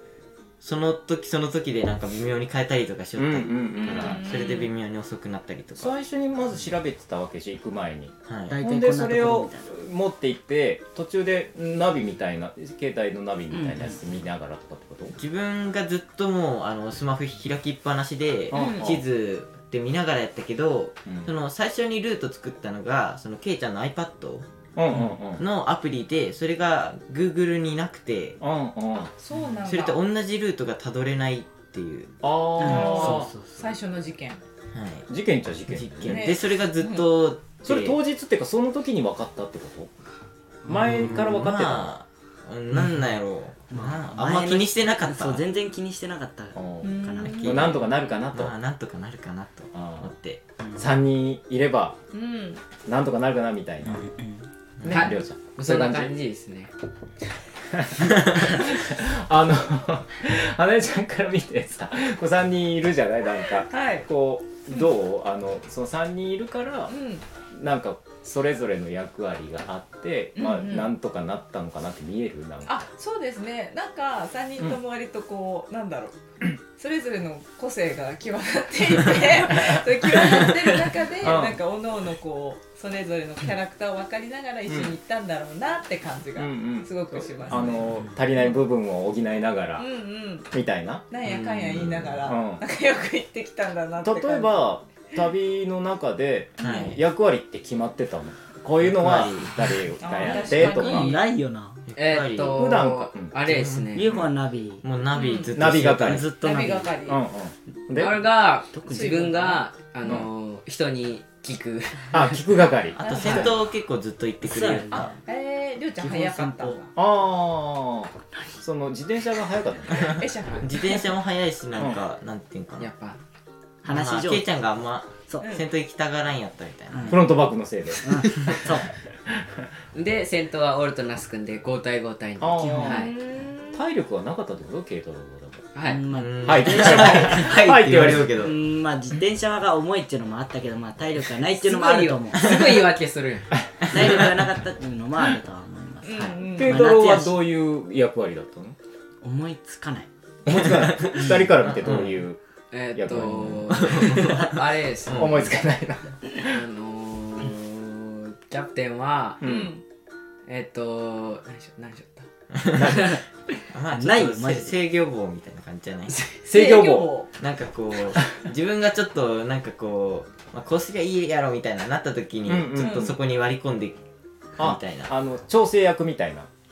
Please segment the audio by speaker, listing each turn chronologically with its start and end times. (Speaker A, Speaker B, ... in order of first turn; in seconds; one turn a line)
Speaker A: 0.6-5.9
Speaker B: 3.2-4.2
Speaker C: 3.8-4.7
Speaker B: 5.8-15.1
Speaker A: 8.2-8.6
Speaker D: 8.5-9.7
Speaker D: 13.5-13.9
Speaker A: 15.2-24.5
Speaker B: 18.5-19.0
Speaker C: 18.5-18.9
Speaker B: 21.1-21.3
Speaker B: 24.8-25.4
Speaker A: 25.4-28.4
Speaker B: 28.4-29.1
Speaker C: 29.1-30.0
Speaker A: 29.6-32.1
Speaker B: 32.2-33.3
Speaker D: 32.6-33.7
Speaker C: 32.6-34.4
Speaker A: 34.7-35.1
Speaker B: 35.1-36.4
Speaker A: 35.7-38.0
Speaker C: 36.1-37.1
Speaker B: 37.6-39.9
Speaker D: 40.6-41.2
Speaker B: 40.6-41.9
Speaker A: 40.7-45.4
Speaker D: 42.7-43.1
Speaker D: 43.7-47.6
Speaker B: 46.5-48.5
Speaker C: 46.8-47.9
Speaker A: 47.2-50.4
Speaker B: 49.7-50.1
Speaker D: 50.6-50.9
Speaker B: 50.8-52.0
Speaker C: 52.1-52.6
Speaker B: 52.8-54.0
Speaker D: 53.9-54.5
Speaker A: 54.8-55.1
Speaker B: 54.8-56.1
Speaker E: 54.9-56.7
Speaker B: 57.7-66.9
Speaker C: 63.7-64.1
Speaker C: 66.9-67.2
Speaker B: 67.5-72.8
Speaker C: 70.3-70.9
Speaker C: 72.7-76.2
Speaker C: 76.7-88.0
Speaker B: 81.2-81.6
Speaker B: 84.7-84.9
Speaker B: 86.3-89.8
Speaker D: 87.8-88.2
Speaker C: 89.8-90.5
Speaker B: 90.5-91.0
Speaker C: 91.1-94.6
Speaker A: 91.2-92.2
Speaker B: 92.2-92.6
Speaker B: 94.0-101.2
Speaker C: 96.6-97.0
Speaker A: 96.6-97.0
Speaker A: 98.8-100.2
Speaker C: 100.0-101.2
Speaker D: 100.4-101.8
Speaker A: 101.9-102.6
Speaker E: 102.0-104.1
Speaker B: 102.4-103.3
Speaker A: 103.4-104.2
Speaker D: 103.9-104.8
Speaker A: 104.8-106.3
Speaker C: 105.1-105.7
Speaker B: 105.5-106.3
Speaker D: 105.8-106.9
Speaker C: 106.3-107.2
Speaker B: 107.0-108.2
Speaker E: 107.9-112.4
Speaker D: 108.7-109.6
Speaker C: 108.9-109.6
Speaker B: 112.1-113.5
Speaker A: 113.0-115.1
Speaker C: 113.0-113.5
Speaker D: 114.4-115.2
Speaker C: 114.9-116.9
Speaker D: 116.0-116.8
Speaker B: 117.0-120.2
Speaker C: 120.0-121.1
Speaker A: 120.6-122.9
Speaker E: 122.8-123.2
Speaker D: 123.8-124.6
Speaker A: 123.8-127.3
Speaker D: 126.9-127.3
Speaker B: 127.1-128.5
Speaker D: 128.0-128.9
Speaker B: 129.3-129.7
Speaker E: 129.9-133.1
Speaker B: 132.4-133.1
Speaker D: 132.6-133.0
Speaker C: 132.8-133.8
Speaker B: 133.7-135.7
Speaker E: 135.7-136.0
Speaker D: 135.8-142.5
Speaker A: 136.1-138.6
Speaker B: 136.4-138.4
Speaker E: 141.6-143.6
Speaker B: 143.6-144.1
Speaker D: 143.9-147.4
Speaker C: 146.0-146.8
Speaker B: 146.6-148.8
Speaker D: 149.2-150.1
Speaker B: 150.4-152.4
Speaker A: 150.5-152.2
Speaker E: 152.7-155.5
Speaker B: 152.9-154.2
Speaker A: 153.7-155.4
Speaker B: 155.1-156.6
Speaker E: 156.3-159.5
Speaker B: 159.4-159.7
Speaker C: 159.4-159.8
Speaker E: 160.4-162.3
Speaker A: 162.5-163.2
Speaker B: 162.7-163.2
Speaker D: 162.9-163.2
Speaker A: 163.7-166.3
Speaker D: 163.9-164.8
Speaker C: 166.4-167.3
Speaker B: 166.4-167.2
Speaker A: 167.4-174.0
Speaker B: 172.4-173.2
Speaker C: 172.8-173.1
Speaker A: 174.6-175.1
Speaker B: 174.6-176.5